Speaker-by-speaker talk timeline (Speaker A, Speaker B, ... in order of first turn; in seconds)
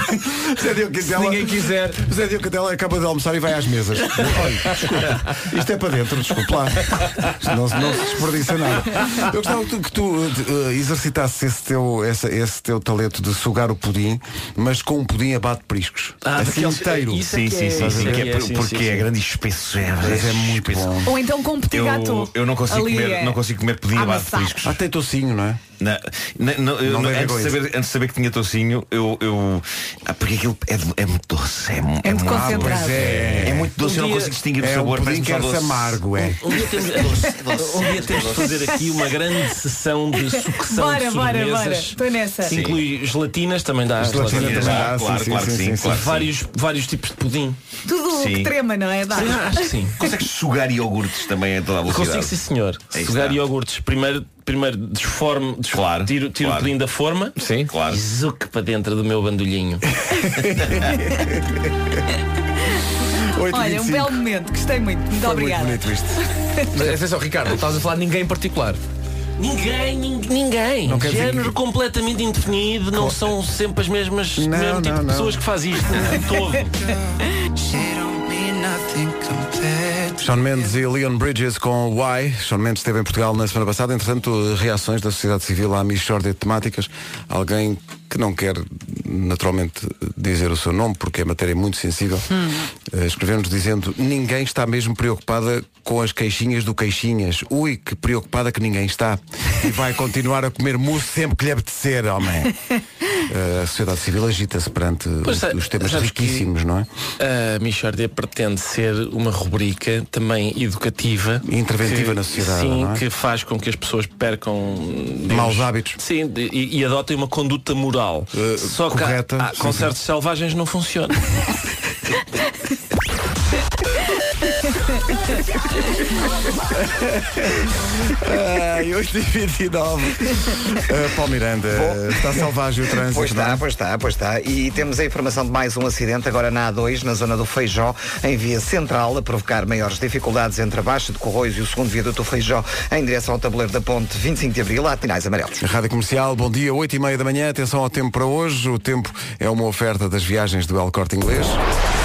Speaker A: 0.3-18.3, 20.0-21.1, 24.6-25.6, 26.8-27.6, 32.3-33.7, 34.6-36.4, 44.0-46.0, 60.1-61.8, 63.2-64.2, 65.1-66.2, 70.8-71.5, 72.9-73.2, 74.3-75.4, 80.2-92.3, 92.8-102.5, 103.1-106.9, 111.4-113.0, 115.3-116.0, 118.3-119.9, 126.7-133.6, 145.6-151.6
Speaker B: 1.0-2.0, 4.2-4.9, 57.4-57.7, 66.7-68.8
Speaker C: 16.2-19.1, 33.8-34.3, 36.4-44.9, 45.8-47.6, 49.1-50.0, 51.9-57.4, 57.9-59.9, 69.4-76.7, 105.2-106.5, 107.2-121.2
Speaker D: 17.2-21.0, 21.7-24.8, 25.8-36.0, 36.7-38.8, 42.5-42.8, 44.1-46.3, 48.1-48.5, 50.0-52.4, 52.9-53.4, 55.7-56.7, 57.7-58.0
Speaker E: 21.0-23.4, 23.9-24.6, 32.0-33.0, 38.5-38.8, 40.3-42.6, 47.9-49.7, 63.4-66.7
Speaker F: 77.8-80.2
Speaker G: 131.7-132.2, 133.1-145.6